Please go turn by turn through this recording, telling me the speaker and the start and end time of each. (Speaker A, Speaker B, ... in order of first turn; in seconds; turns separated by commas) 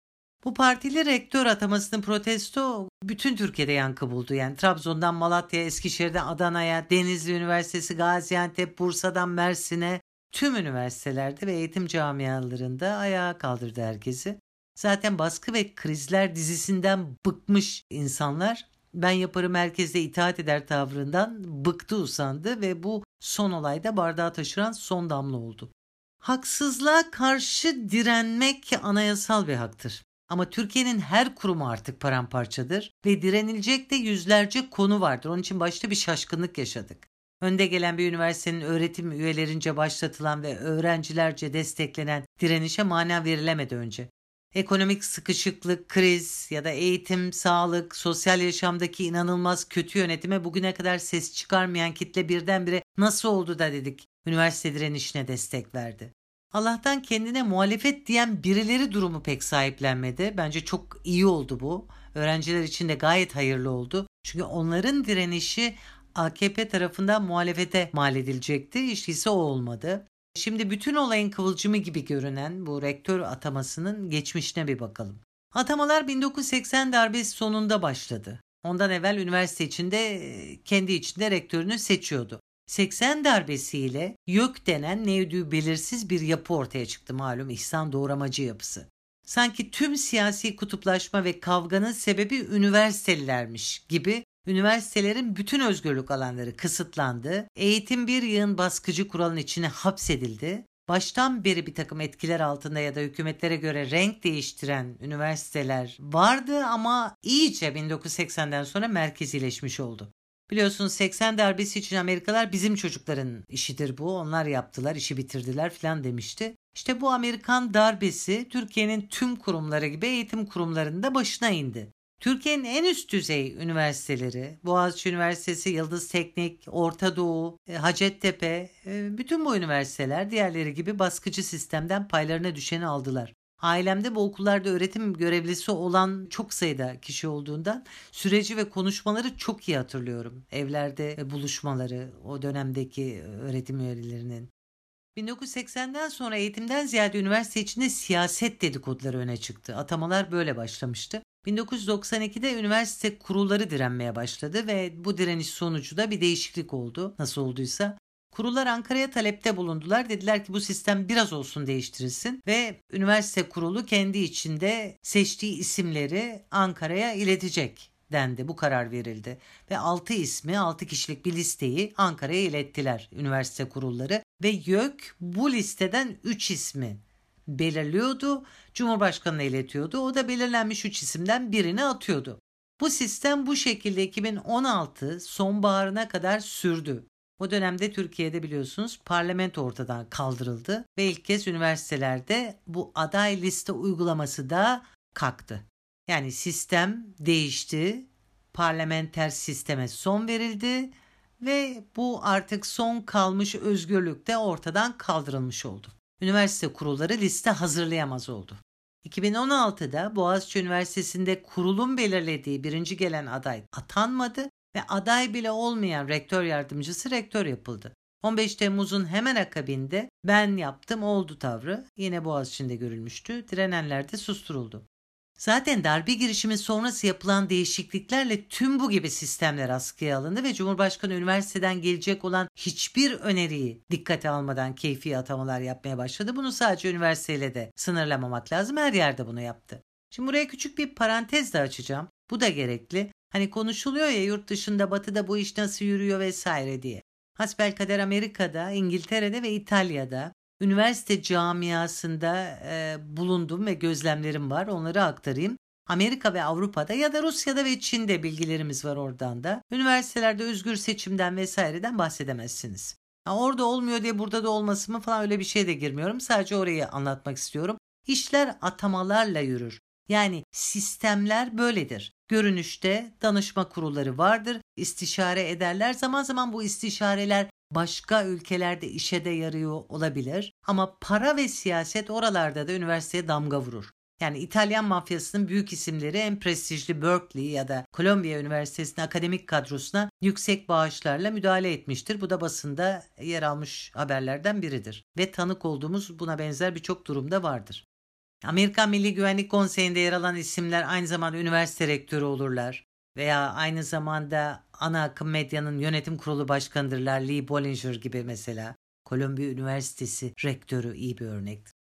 Speaker A: 0.4-25.7, Speaker A: 26.2-144.5, Speaker A: 145.2-224.8, Speaker A: 225.4-297.9, Speaker A: 298.4-311.7